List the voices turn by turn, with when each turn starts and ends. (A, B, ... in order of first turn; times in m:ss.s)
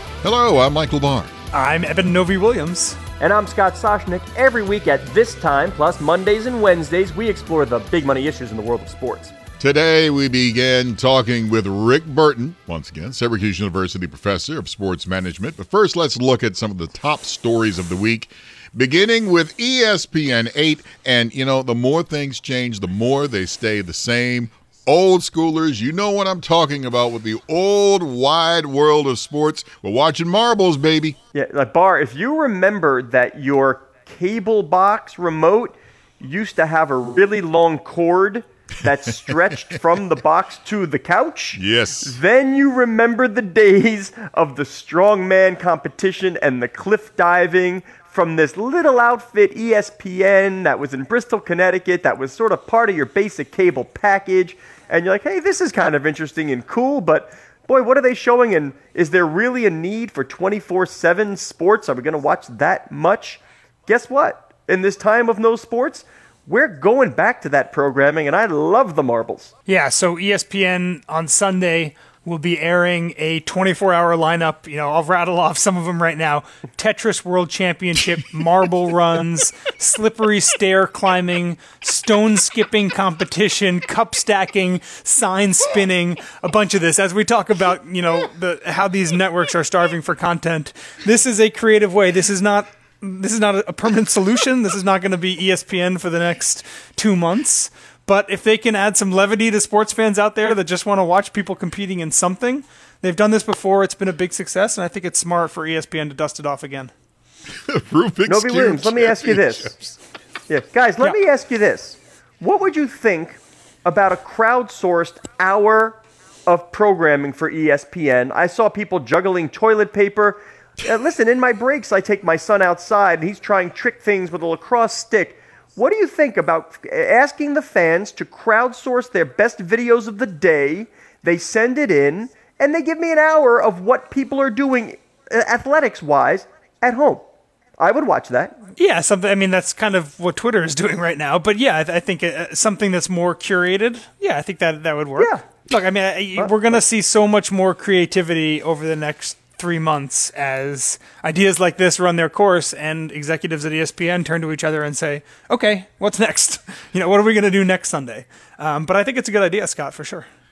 0:00.2-0:01.3 A
0:01.5-0:03.0 B
0:03.2-0:09.3 C
0:09.6-0:31.2 A
0:31.3-1:09.5 C
0:41.5-0:42.1 A
1:09.7-1:46.9 B
1:47.7-1:49.9 A
1:48.3-1:49.8 C
1:50.5-2:17.2 C
2:17.8-2:18.5 C
2:18.8-2:40.3 B
2:25.2-2:25.5 C